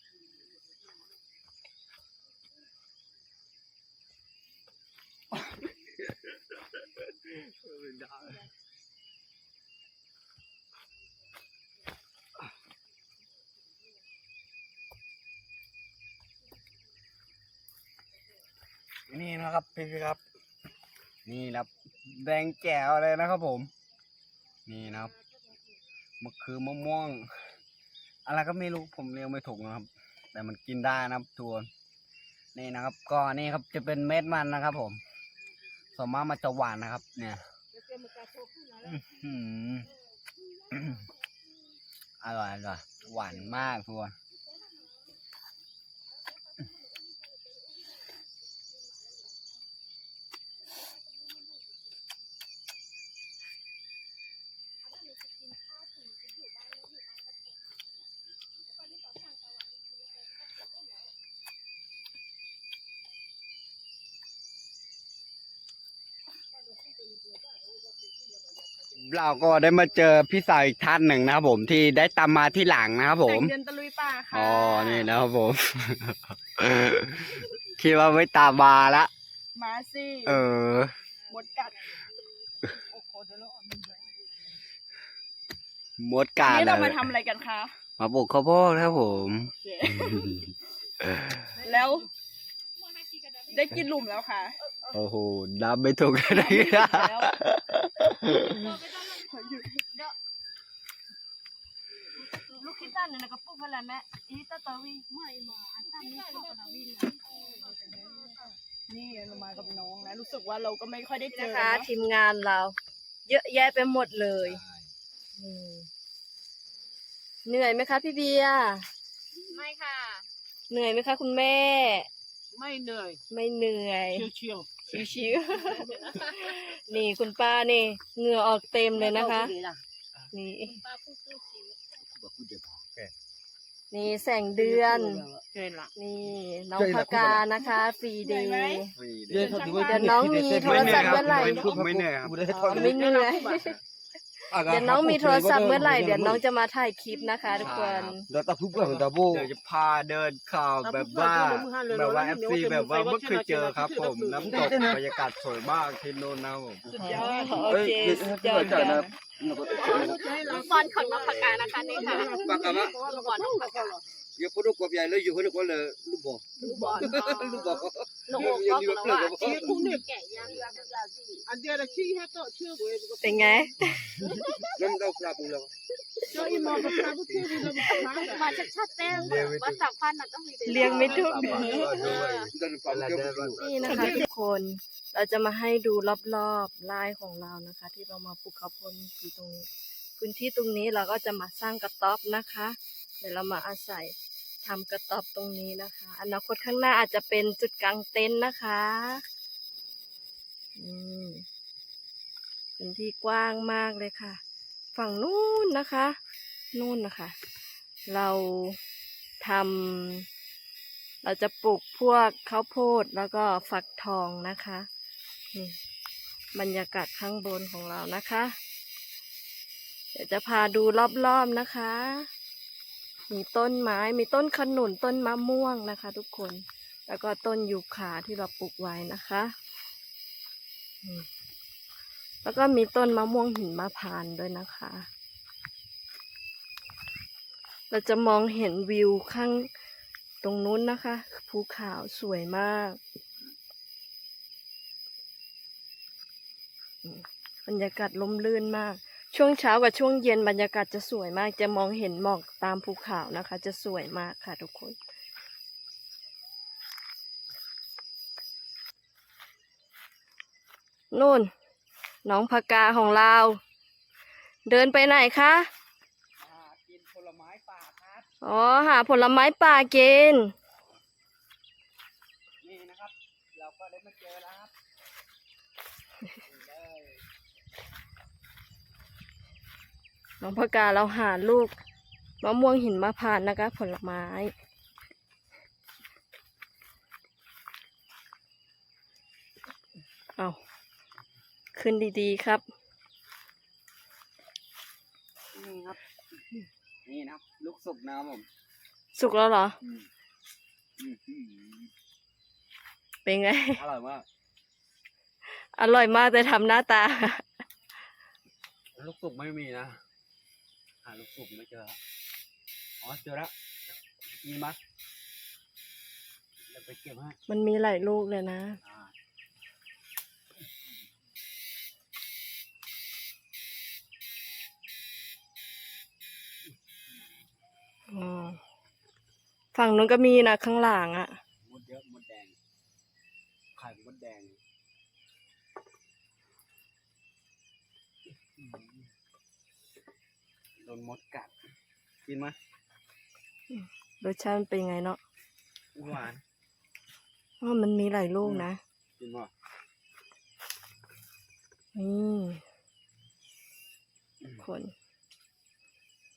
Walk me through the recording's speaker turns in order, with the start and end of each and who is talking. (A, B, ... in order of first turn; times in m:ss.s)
0:07.5-0:08.4 A
0:19.1-0:20.2 A
0:21.3-0:23.7 A
0:24.7-0:25.1 A
0:24.8-0:25.6 B
0:26.2-0:27.4 A
0:28.3-0:31.7 A
0:32.6-0:35.0 A
0:36.0-0:37.4 A
0:37.7-0:39.3 B
0:38.8-0:39.9 A
0:40.6-0:41.0 C
0:40.7-0:41.1 A
0:42.2-0:44.2 A
0:43.1-0:43.6 B
0:44.3-0:45.0 C
0:46.3-0:47.8 C
0:48.7-0:49.5 C
0:54.8-0:57.8 C
0:58.7-1:01.1 C
1:06.6-1:08.9 B
1:09.0-1:13.6 A
1:13.2-1:15.1 D
1:14.3-1:19.1 A
1:19.6-1:20.4 D
1:20.2-1:20.9 A
1:21.3-1:22.0 D
1:22.7-1:24.4 B
1:26.0-1:27.1 A
1:26.4-1:27.8 D
1:28.0-1:30.5 A
1:29.6-1:30.4 D
1:31.0-1:31.5 A
1:31.6-1:32.1 D
1:32.8-1:33.8 C
1:33.5-1:34.6 D
1:34.9-1:38.8 A
1:36.2-1:37.3 D
1:38.6-1:40.1 C
1:39.3-1:39.8 D
1:42.5-1:45.1 E
1:45.1-1:48.6 C
1:45.3-1:46.8 B
1:47.1-1:48.3 D
1:48.9-1:51.9 D
1:49.3-1:50.4 C
1:51.3-1:52.8 E
1:53.3-1:54.6 E
1:54.4-1:54.9 A
1:55.4-1:55.9 E
1:57.5-1:58.9 E
1:59.5-2:00.3 C
2:00.7-2:02.1 E
2:02.5-2:03.2 B
2:03.3-2:04.3 E
2:04.1-2:04.7 B
2:04.9-2:09.6 E
2:09.0-2:09.8 B
2:10.3-2:10.8 E
2:10.7-2:12.0 C
2:12.1-2:12.8 A
2:13.9-2:15.2 E
2:14.6-2:15.9 B
2:16.0-2:18.9 E
2:16.8-2:17.4 F
2:18.2-2:20.4 D
2:19.0-2:19.6 A
2:19.3-2:23.0 F
2:19.6-2:19.9 B
2:19.8-2:21.8 E
2:20.5-2:22.4 A
2:22.5-2:23.8 B
2:22.5-2:23.8 E
2:24.5-2:26.4 F
2:24.6-2:28.2 E
2:27.6-2:37.0 A
2:28.3-2:29.5 F
2:30.8-2:35.2 B
2:36.9-2:39.2 D
2:37.0-2:39.1 E
2:37.5-2:40.4 F
2:39.6-2:44.0 B
2:39.7-2:44.0 C
2:41.8-2:42.4 D
2:42.2-2:43.0 F
2:44.4-2:49.9 F
2:46.6-2:51.0 C
2:46.6-2:47.8 B
2:48.4-2:48.6 B
2:49.3-2:54.5 B
2:53.2-2:54.1 E
2:54.8-2:55.7 F
2:56.3-2:58.6 B
2:56.4-2:56.7 F
2:58.0-3:02.5 C
2:59.0-2:59.7 F
3:00.7-3:02.2 E
3:00.8-3:04.0 F
3:00.8-3:03.6 A
3:03.6-3:09.7 E
3:03.9-3:04.3 B
3:10.2-3:19.2 E
3:20.8-3:21.4 E
3:22.8-3:24.4 E
3:25.0-3:26.2 E
3:26.7-3:27.4 E
3:28.1-3:28.8 E
3:29.4-3:30.3 E
3:31.2-3:34.9 E
3:36.5-3:38.6 E
3:40.2-3:42.3 E
3:43.3-3:49.6 E
3:52.4-3:55.1 E
3:57.9-3:59.7 E
4:00.4-4:03.0 E
4:07.0-4:15.0 E
4:21.1-4:21.5 E
4:22.2-4:23.6 E
4:24.7-4:25.7 E
4:26.4-4:28.3 A
4:28.4-4:30.5 E
4:32.6-4:34.7 A
4:36.4-4:37.2 A
4:40.4-4:41.7 E
4:42.4-4:44.5 E
4:51.7-4:52.6 E
4:55.5-4:56.0 A
4:57.0-4:58.5 A
4:59.2-4:59.8 E
4:59.8-5:00.1 A
5:01.0-5:01.9 A
5:03.3-5:03.8 E
5:03.7-5:04.2 A
5:05.6-5:07.5 E
5:09.0-5:10.0 A
5:11.0-5:12.0 A
5:13.0-5:13.5 A
5:14.4-5:14.8 A
5:16.7-5:17.4 A
5:17.5-5:18.8 E
5:18.8-5:19.1 A
5:28.1-5:28.6 E
5:29.7-5:31.4 E
5:31.6-5:32.6 A
5:33.8-5:34.6 A
5:38.6-5:39.1 A
5:40.8-5:41.5 A
5:42.2-5:42.6 A
5:43.7-5:45.2 E
5:46.0-5:46.4 A
5:47.6-5:48.8 E
5:48.4-5:49.5 A
5:52.0-5:52.6 E
5:54.6-5:54.9 E